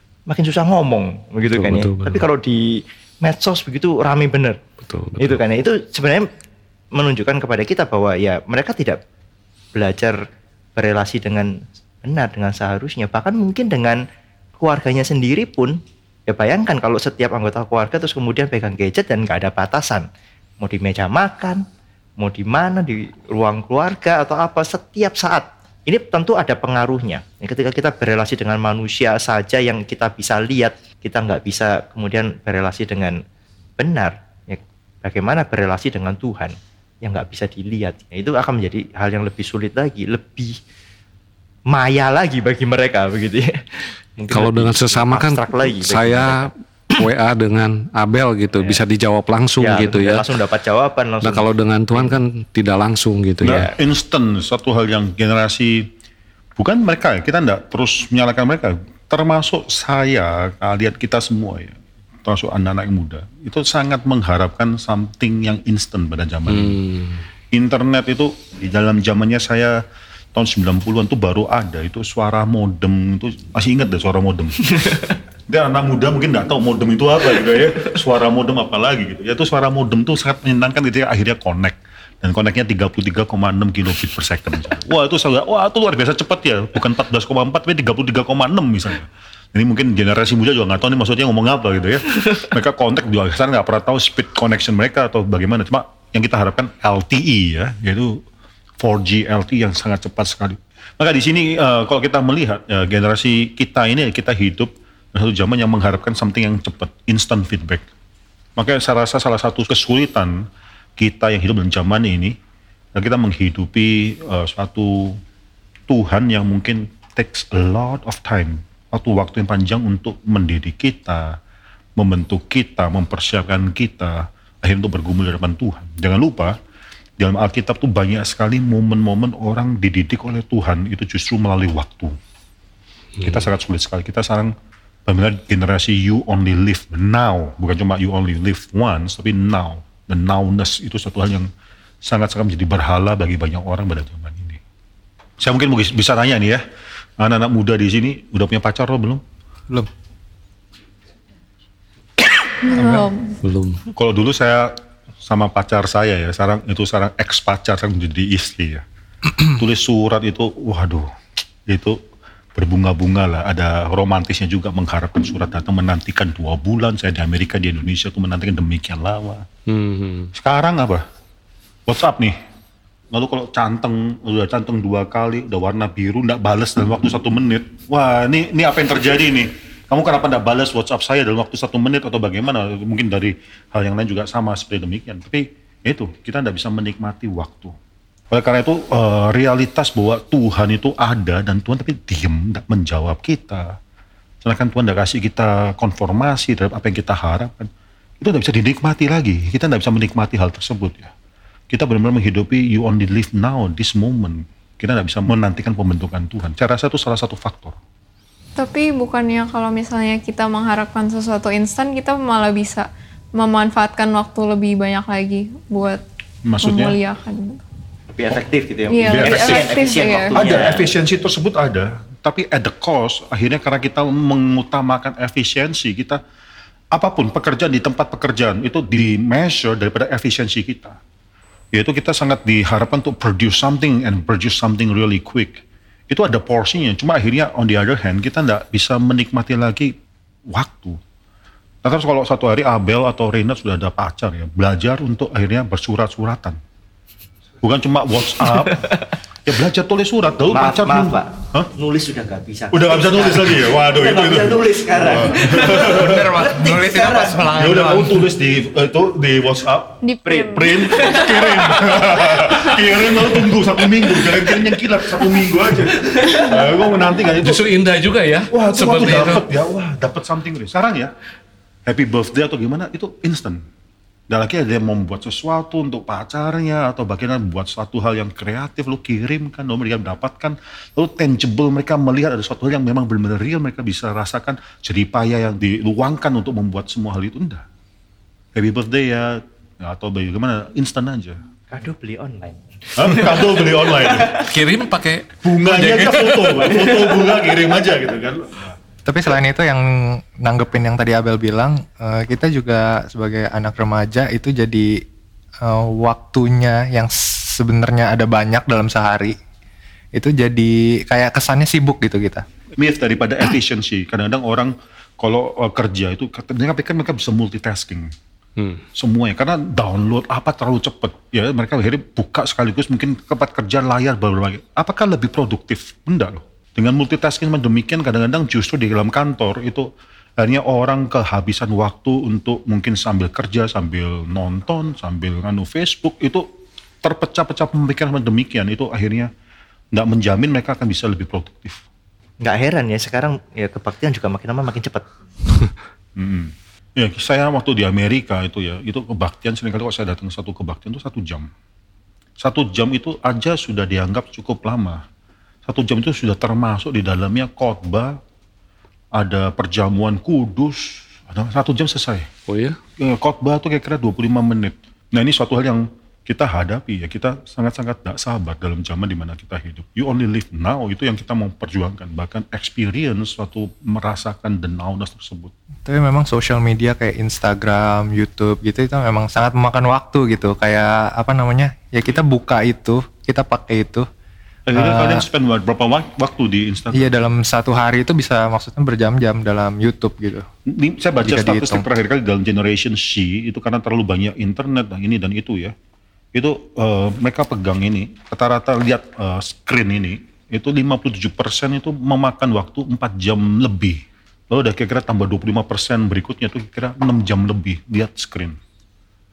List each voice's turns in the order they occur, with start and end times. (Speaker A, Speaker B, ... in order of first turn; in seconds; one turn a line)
Speaker A: 0.3-4.6
Speaker B: 1.4-2.2
Speaker B: 4.8-5.4
Speaker A: 5.2-6.3
Speaker A: 6.9-9.0
Speaker A: 9.7-10.2
Speaker A: 10.8-11.5
Speaker A: 12.0-14.0
Speaker A: 14.6-15.8
Speaker A: 16.3-20.1
Speaker A: 20.6-21.6
Speaker A: 22.2-33.2
Speaker A: 33.8-40.5
Speaker A: 41.7-46.5
Speaker B: 44.3-50.3
Speaker A: 49.6-52.2
Speaker B: 51.2-53.7
Speaker C: 53.4-55.9
Speaker C: 56.6-66.8
Speaker B: 66.5-67.2
Speaker C: 67.5-69.8
Speaker C: 70.3-74.8
Speaker A: 74.8-75.0
Speaker C: 75.5-98.2
Speaker C: 98.8-107.8
Speaker C: 108.6-110.5
Speaker C: 111.0-112.4
Speaker C: 112.9-115.2
Speaker C: 115.9-121.4
Speaker C: 122.0-126.5
Speaker C: 127.2-132.2
Speaker C: 133.2-134.5
Speaker C: 135.1-141.5
Speaker C: 142.0-144.6
Speaker C: 145.4-146.6
Speaker C: 147.2-149.2
Speaker D: 152.6-153.4
Speaker B: 153.4-153.8
Speaker C: 153.9-158.8
Speaker C: 159.4-161.1
Speaker C: 161.7-162.0
Speaker C: 162.5-169.4
Speaker B: 169.7-170.3
Speaker C: 170.3-171.0
Speaker C: 171.9-172.3
Speaker C: 173.1-187.8
Speaker C: 188.3-193.7
Speaker C: 194.4-201.1
Speaker C: 201.7-207.8
Speaker D: 208.6-216.0
Speaker C: 216.4-217.0
Speaker D: 216.6-217.6
Speaker A: 218.1-220.9
Speaker D: 218.9-220.6
Speaker C: 219.1-219.7
Speaker C: 220.3-226.2
Speaker C: 226.9-231.0
Speaker C: 231.7-239.9
Speaker C: 240.5-241.0
Speaker C: 241.8-246.6
Speaker C: 247.6-248.9
Speaker A: 248.4-249.1
Speaker C: 249.4-251.7
Speaker A: 250.5-257.5
Speaker C: 252.7-256.3
Speaker E: 255.8-258.2
Speaker C: 257.5-267.7
Speaker D: 260.0-261.0
Speaker A: 260.2-263.2
Speaker A: 266.1-266.5
Speaker B: 267.4-269.4
Speaker C: 268.5-271.1
Speaker C: 271.9-273.6
Speaker C: 274.3-287.6
Speaker C: 288.5-291.4
Speaker A: 291.7-294.4
Speaker C: 292.9-294.4
Speaker B: 294.4-297.0
Speaker C: 295.4-298.8
Speaker E: 299.1-305.0
Speaker E: 305.6-309.4
Speaker E: 310.1-312.4
Speaker C: 312.8-318.1
Speaker B: 318.6-318.8
Speaker C: 318.9-329.9
Speaker C: 330.4-336.5
Speaker C: 337.0-339.3
Speaker C: 339.9-341.8
Speaker A: 342.4-345.1
Speaker C: 346.1-351.5
Speaker C: 352.4-355.0
Speaker C: 355.6-358.2
Speaker C: 359.1-362.3
Speaker B: 362.5-362.8
Speaker C: 363.0-375.5
Speaker E: 375.8-384.1
Speaker C: 384.7-387.1
Speaker E: 384.7-385.2
Speaker E: 386.9-390.5
Speaker C: 390.6-395.7
Speaker E: 391.2-391.9
Speaker C: 396.3-408.6